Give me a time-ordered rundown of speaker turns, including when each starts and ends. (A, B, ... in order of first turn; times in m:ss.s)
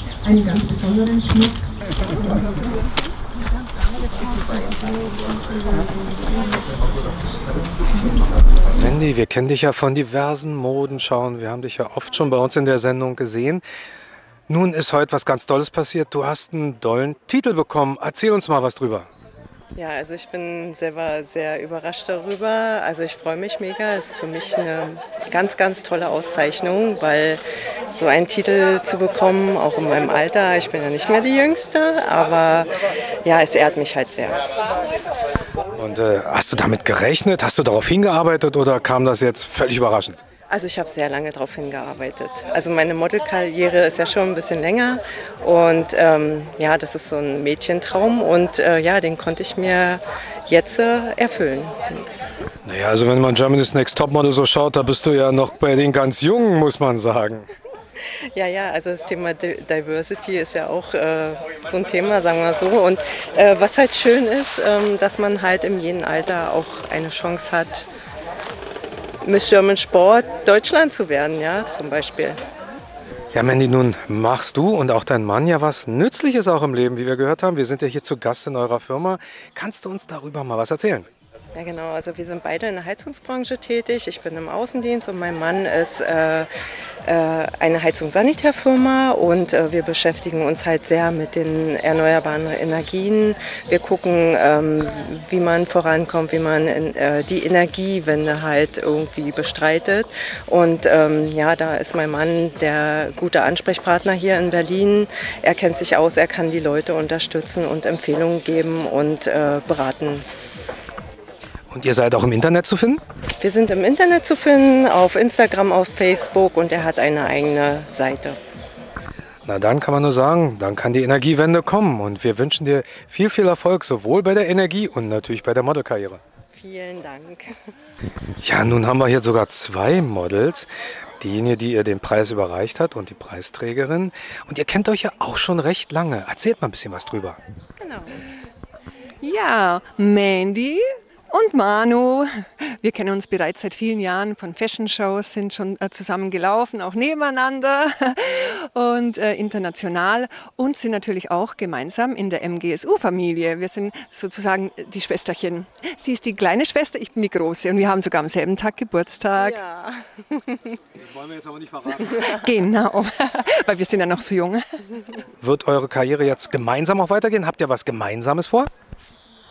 0:00.2-0:02.4 A
0:04.4-0:06.6 A
0:08.7-0:13.6 B
0:14.5-0:19.1 B
0:19.8-0:27.4 C
0:27.9-0:32.7 C
0:33.2-0:34.4 C
0:35.8-0:40.2 B
0:40.5-0:51.8 C
0:52.6-0:57.5 B
0:58.3-1:07.9 C
1:09.2-1:12.4 C
1:13.3-1:21.1 B
1:21.5-1:26.5 C
1:27.0-1:50.2 C
1:51.7-1:53.0 B
1:53.4-1:58.4 C
1:59.4-2:06.2 B
2:06.5-2:07.5 C
2:08.4-2:17.4 B
2:17.8-2:18.3 C
2:19.2-2:39.6 A
2:39.4-2:40.8 C
2:41.0-2:42.4 B
2:42.2-2:44.8 A
2:45.4-2:48.7 B